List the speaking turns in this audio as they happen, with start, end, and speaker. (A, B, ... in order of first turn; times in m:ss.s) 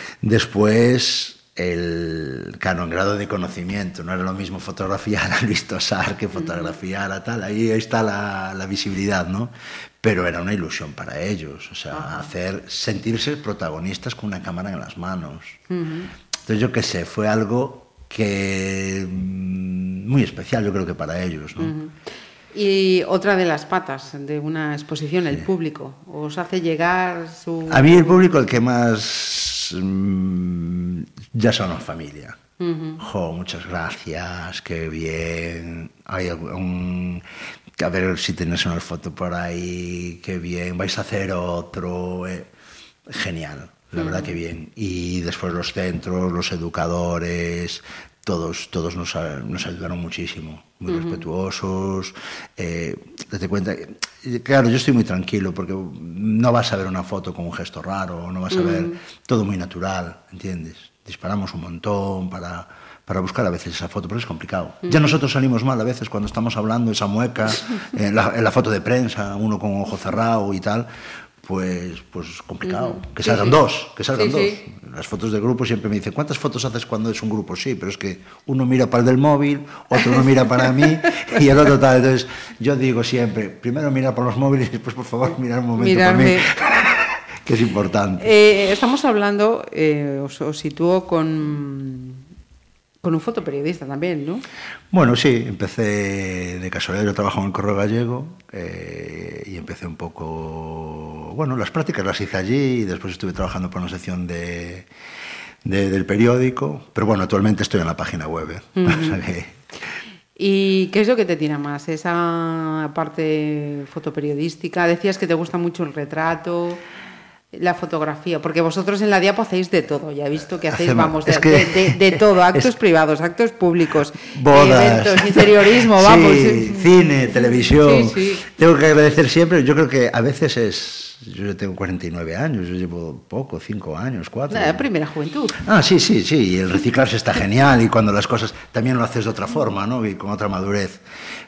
0:00.2-0:15.6 A
0:06.4-0:06.7 B
0:11.9-0:12.3 B
0:15.7-0:16.1 B
0:16.5-0:21.7 A
0:21.6-0:21.9 B
0:22.5-0:28.4 B
0:27.7-0:32.4 A
0:32.6-0:33.0 B
0:33.0-0:37.2 A
0:37.8-0:42.5 A
0:43.1-1:10.9 A
0:44.0-0:44.4 B
0:50.9-0:51.2 B
0:58.5-0:59.0 B
1:11.4-1:28.3 A
1:12.6-1:13.6 B
1:14.2-1:14.6 B
1:20.0-1:21.4 B
1:25.8-1:26.5 B
1:28.2-1:32.2 B
1:33.0-1:34.4 B
1:34.9-1:44.9 A
1:45.6-1:49.6 A
1:48.8-1:49.2 B
1:50.4-1:56.8 B
1:57.5-2:08.4 B
2:00.6-2:02.7 A
2:04.2-2:14.9 A
2:14.5-2:15.6 B
2:15.6-2:21.0 A